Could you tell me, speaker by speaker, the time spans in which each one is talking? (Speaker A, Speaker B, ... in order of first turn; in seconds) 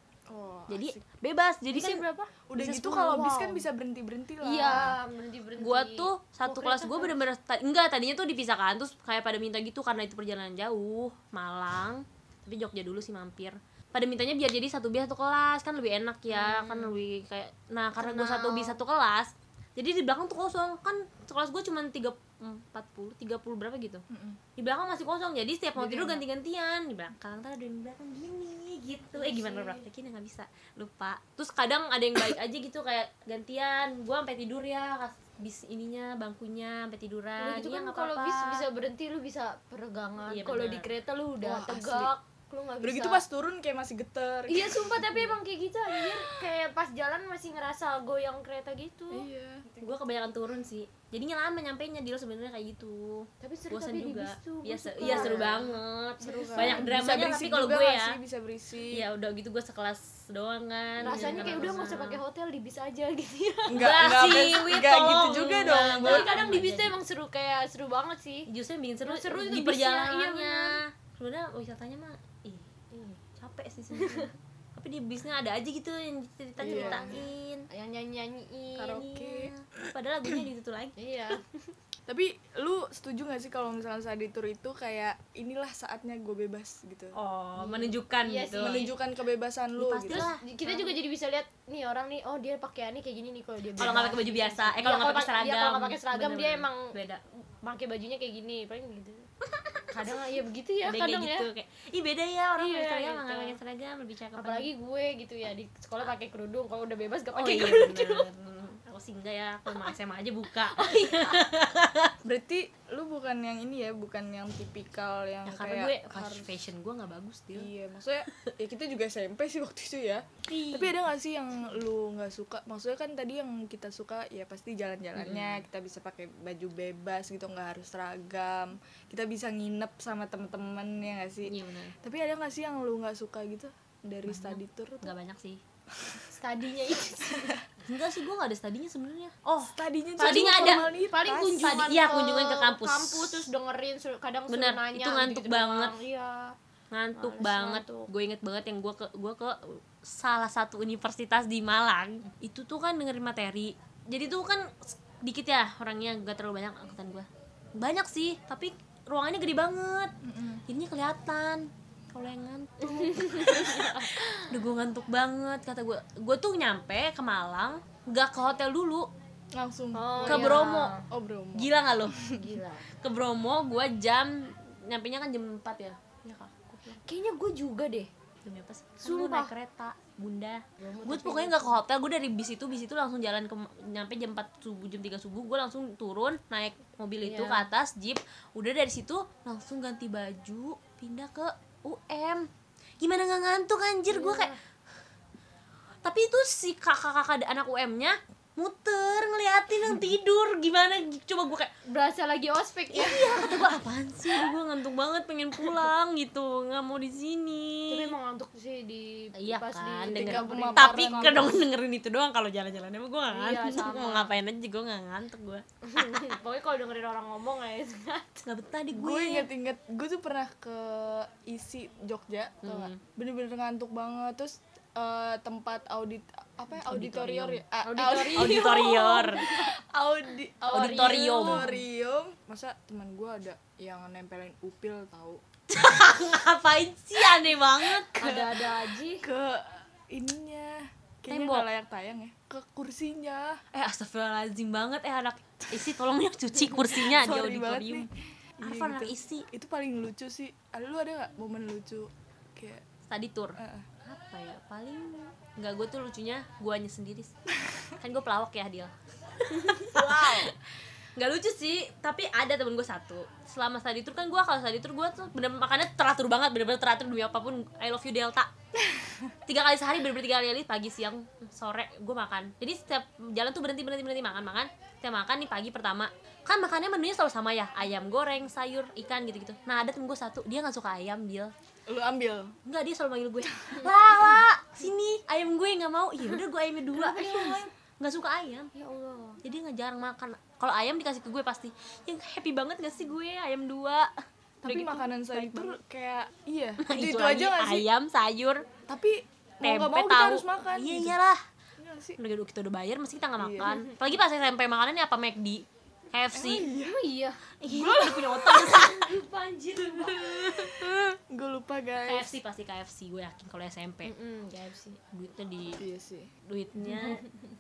Speaker A: 0.3-1.0, 2.5-5.0, 24.1-24.4, 25.8-26.2, 41.4-42.1, 42.8-45.3, 45.9-46.5, 49.1-49.8, 55.0-55.6, 56.2-59.0, 61.0-61.7, 63.7-66.3, 76.6-77.2, 79.0-79.5, 82.1-87.2, 88.6-90.3, 112.2-116.5, 117.5-135.1, 139.7-141.9, 160.2-160.6, 169.5-172.4, 210.1-211.6, 218.9-235.4, 239.2-243.6, 246.8-252.8, 253.6-253.9, 259.9-260.5, 281.9-282.5, 287.1-287.6, 294.6-297.9, 298.9-301.2, 301.8-302.2, 303.4-303.8, 306.3-307.0, 307.6-308.9, 310.2-312.4, 315.8-316.3
Speaker B: 0.7-2.0, 2.6-3.4, 5.6-24.0, 24.6-38.6, 40.3-40.9, 49.8-58.2, 58.9-62.2, 63.8-67.0, 68.5-72.7, 73.3-77.7, 78.8-81.0, 87.1-88.9, 89.8-90.9, 93.8-97.2, 99.6-99.9, 100.8-104.7, 107.3-112.1, 115.5-117.7, 120.5-121.0, 125.2-125.7, 131.5-131.9, 134.3-135.6, 137.9-140.9, 141.6-143.5, 144.5-145.9, 146.9-160.1, 160.7-169.1, 170.2-170.9, 171.6-172.2, 173.0-176.8, 178.4-192.5, 193.0-194.5, 196.0-201.7, 202.9-208.1, 209.4-216.2, 218.4-219.5, 222.6-223.0, 226.8-227.6, 228.3-229.4, 230.7-231.7, 235.7-238.7, 241.3-241.7, 243.7-248.1, 248.6-249.5, 253.1-257.3, 258.0-260.6, 261.2-268.5, 269.5-281.5, 282.6-288.7, 289.4-294.1, 294.6-295.8, 296.8-298.6, 299.6-301.4, 302.2-306.7, 307.6-309.2, 310.0-311.0, 312.1-314.1, 315.1-315.8, 316.5-317.2
Speaker C: 1.7-2.4, 3.1-3.6, 4.4-7.2, 16.3-17.0, 18.0-18.8, 29.2-29.8, 37.4-43.2, 44.5-49.3, 53.4-57.0, 61.0-64.0, 65.6-68.5, 69.0-70.8, 72.9-73.2, 73.9-74.3, 76.6-79.4, 81.0-81.7, 87.6-89.0, 90.1-97.0, 97.6-99.3, 99.9-101.5, 102.6-103.6, 104.3-108.3, 110.7-111.4, 136.3-137.6, 140.2-146.6, 147.2-148.1, 162.8-164.5, 169.9-171.1, 172.3-172.8, 176.8-178.1, 179.0-179.5, 180.8-181.8, 187.2-187.7, 194.1-194.6, 201.9-203.8, 207.9-211.6, 213.3-214.4, 215.8-218.3, 227.8-229.7, 230.6-231.8, 238.2-239.2, 287.0-287.7, 288.7-289.4, 306.7-307.4, 308.6-310.2, 314.1-315.0